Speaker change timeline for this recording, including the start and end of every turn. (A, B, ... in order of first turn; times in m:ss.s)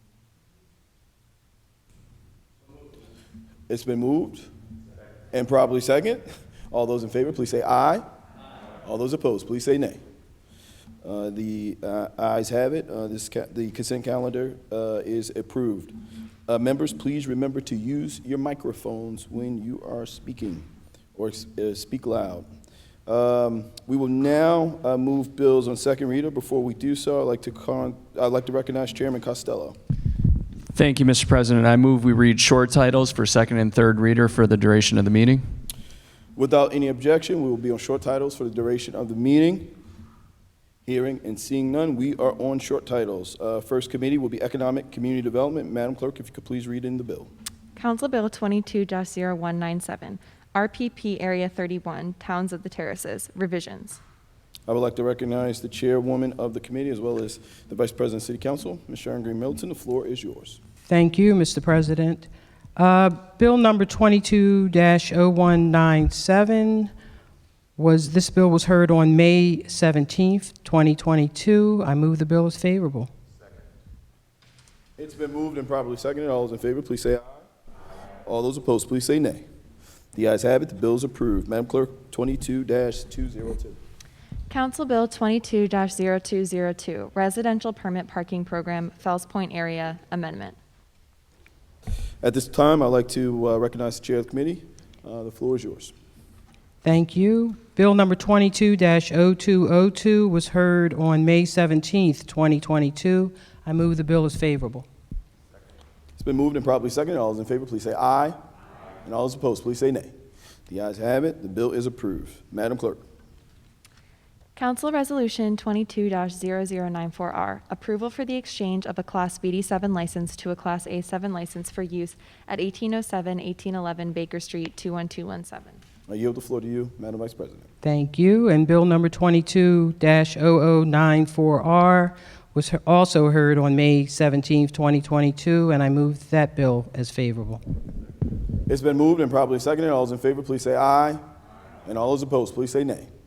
0:03.7-0:04.5 A
0:05.3-0:08.0 A
0:08.8-0:10.0 A
0:11.0-0:15.9 A
0:16.5-0:22.5 A
0:23.0-0:29.8 A
0:30.7-0:35.4 B
0:36.4-0:39.7 A
0:40.8-0:47.3 A
0:47.8-0:54.0 C
0:54.7-1:00.6 A
1:00.9-1:06.9 D
1:07.8-1:13.1 D
1:15.0-1:17.4 A
1:18.2-1:19.4 A
1:20.1-1:23.8 A
1:24.5-1:30.6 C
1:32.2-1:35.9 A
1:36.8-1:44.8 D
1:46.2-1:48.4 A
1:49.0-1:50.1 A
1:50.7-1:53.0 A
1:54.6-2:05.8 C
2:06.1-2:07.7 A
2:07.8-2:17.6 D
2:18.7-2:21.2 A
2:21.8-2:23.1 A